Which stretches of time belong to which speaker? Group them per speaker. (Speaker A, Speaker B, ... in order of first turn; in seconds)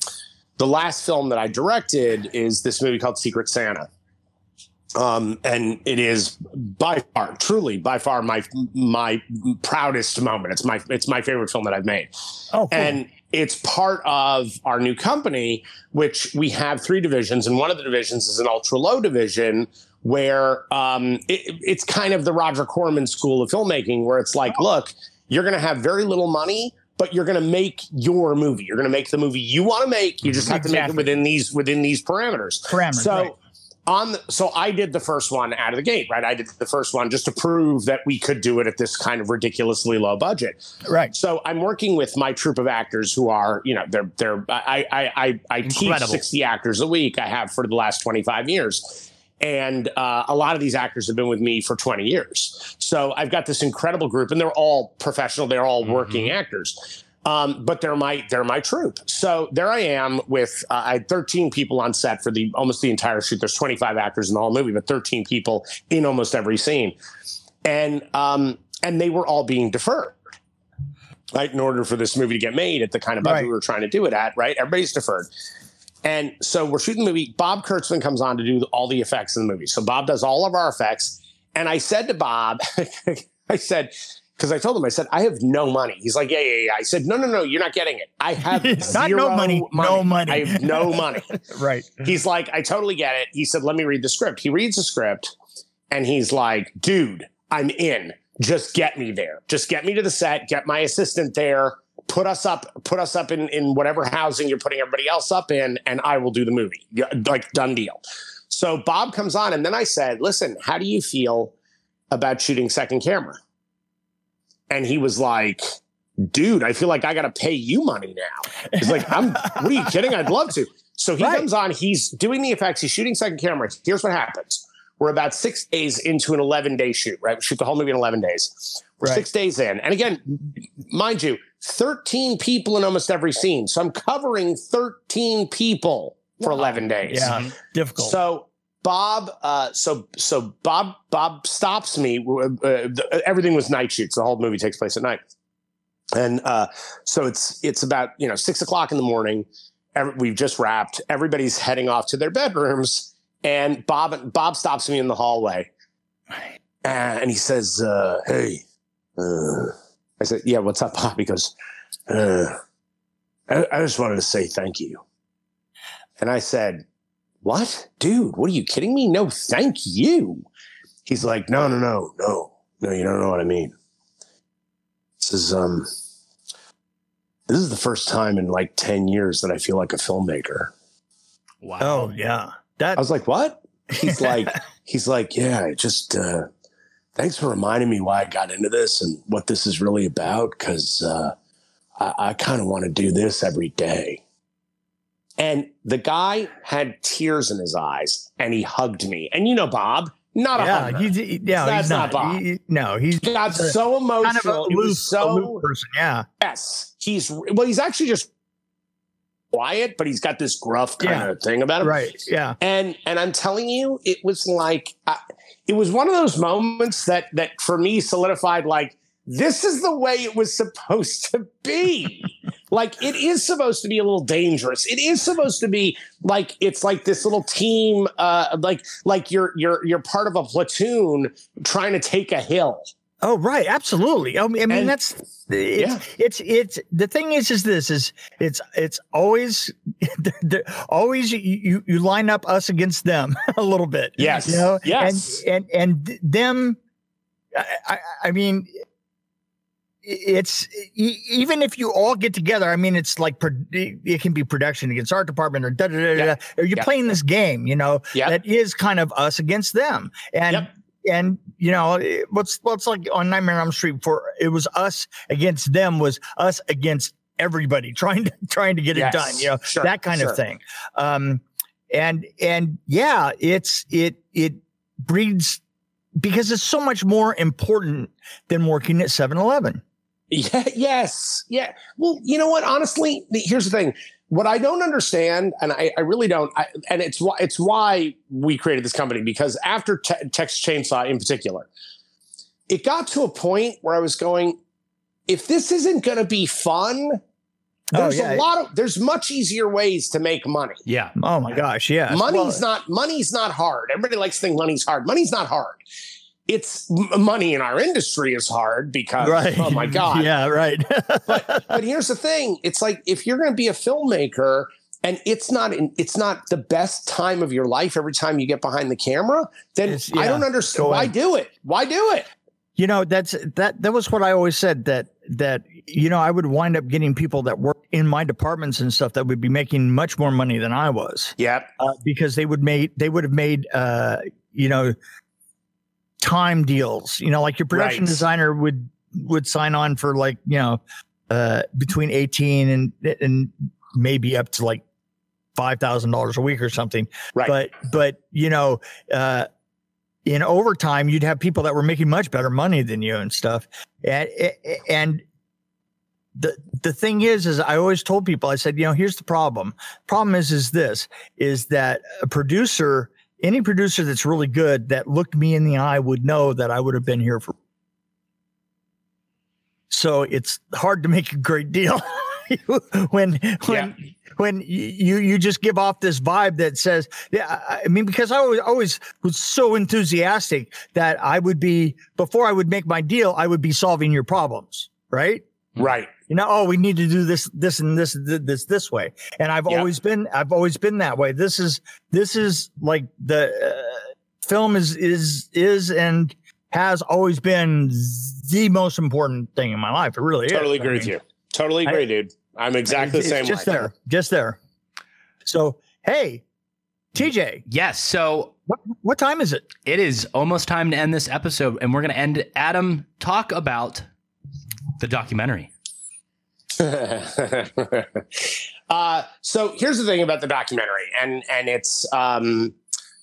Speaker A: 0.6-3.9, 5.0-12.1, 12.7-33.4, 33.9-40.6, 41.1-67.0, 67.6-70.2, 71.3-75.3, 76.0-91.3, 92.0-95.3, 95.9-111.5, 112.1-113.4, 114.7-115.7, 116.2-130.4, 130.9-137.4, 138.0-145.2, 146.1-155.7, 156.8-158.6, 159.2-161.5, 162.1-162.6, 163.5-165.0, 166.2-166.8, 167.4-170.5, 171.1-173.8, 175.2-175.9, 177.5-180.7, 183.0-186.5, 187.2-191.3, 192.0-194.2, 195.4-202.4, 203.2-205.6, 206.4-208.3, 209.5-212.0, 212.6-232.9, 234.7-234.9, 235.8-236.0, 244.2-245.4, 256.1-256.9, 268.9-270.4, 280.3-291.7, 292.7-294.6, 295.3-297.2, 297.9-300.8, 302.1-305.8, 306.5-310.3, 311.3-322.3, 331.4-331.7, 337.7-338.2, 373.7-373.9, 385.8-386.1, 400.5-403.9, 416.7-422.8
Speaker B: 12.5-13.0, 30.5-31.1, 32.7-33.4, 40.9-41.1, 73.2-73.5, 88.5-92.0, 118.8-119.9, 121.2-121.5, 136.6-138.2, 181.8-183.0, 184.0-184.5, 200.6-206.3, 211.0-211.3, 211.8-212.6, 233.2-246.8, 247.5-248.8, 250.0-275.6, 276.2-279.8, 297.9-298.5, 301.2-302.6, 309.2-311.8, 319.9-321.1, 322.8-334.9, 336.2-344.8, 345.6-349.5, 350.3-355.2, 356.4-367.6, 369.9-385.4, 386.3-401.1, 402.9-404.6, 405.4-406.4, 407.1-407.6, 408.7-409.7
Speaker C: 45.6-46.2, 55.9-56.3, 137.2-137.5, 181.6-182.1, 300.9-301.1, 407.7-408.5, 409.8-414.1, 415.0-415.7